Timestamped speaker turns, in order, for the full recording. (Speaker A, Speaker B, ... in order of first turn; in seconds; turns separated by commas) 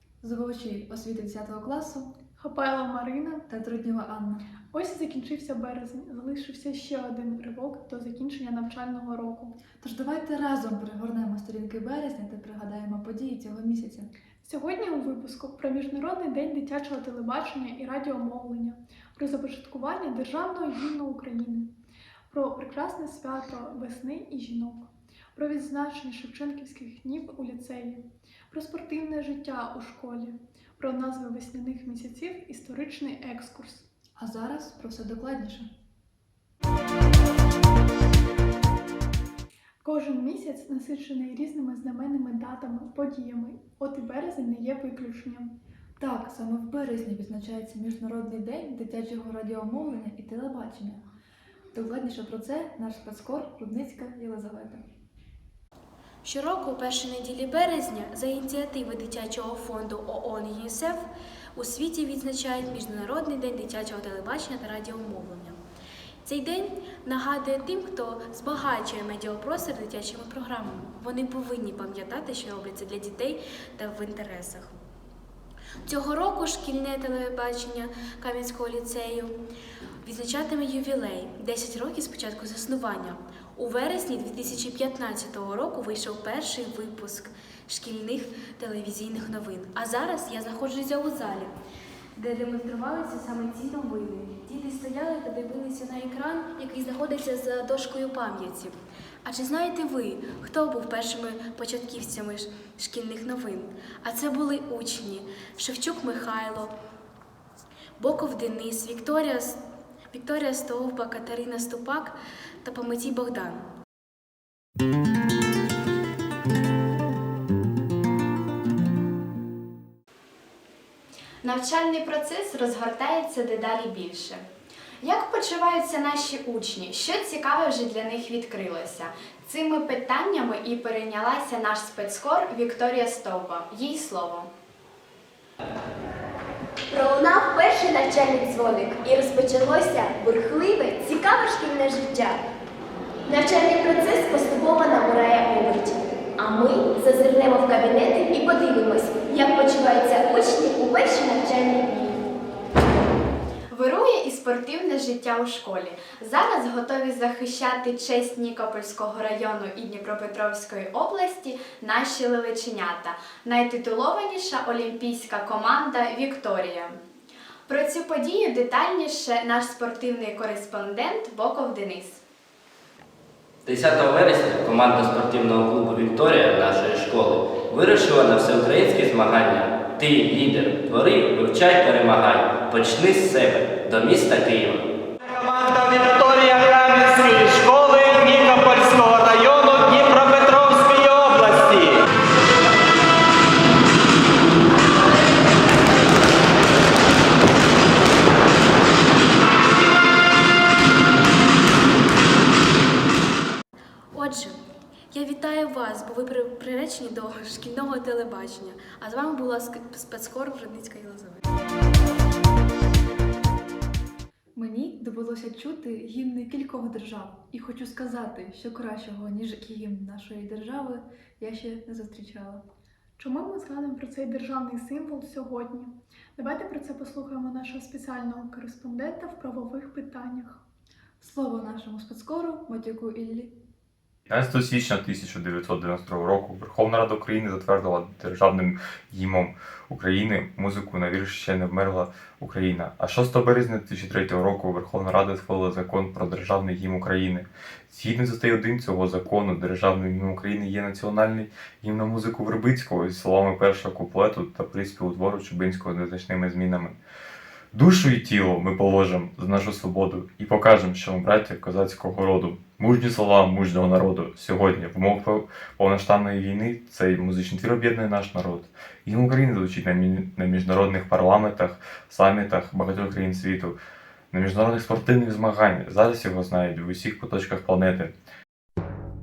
Speaker A: 0.2-2.1, Speaker B: 2.4-3.4, Speaker A: 3.5-4.4, Speaker B: 4.7-9.6, Speaker A: 9.7-14.1, Speaker B: 14.4-21.7, Speaker B: 22.3-33.8, Speaker A: 34.2-35.7, Speaker B: 39.8-45.5, Speaker A: 46.0-51.0, Speaker A: 51.7-54.8, Speaker C: 56.2-61.0, Speaker C: 61.6-65.5, Speaker C: 66.2-74.7, Speaker C: 75.9-79.3, Speaker C: 80.0-91.5, Speaker C: 92.2-98.7, Speaker C: 99.2-106.7, Speaker C: 108.0-109.5, Speaker C: 110.1-112.1, Speaker C: 112.6-113.6, Speaker D: 121.4-124.5, Speaker D: 125.0-134.5, Speaker E: 136.9-142.4, Speaker E: 143.3-152.2, Speaker D: 153.7-167.0, Speaker D: 167.7-172.2, Speaker F: 173.7-184.8, Speaker G: 185.3-192.0, Speaker C: 204.2-204.5, Speaker C: 205.1-211.4, Speaker A: 214.5-222.6, Speaker B: 223.2-230.6, Speaker A: 231.2-233.5, Speaker H: 234.3-257.0, Speaker H: 257.7-273.8, Speaker H: 274.3-278.1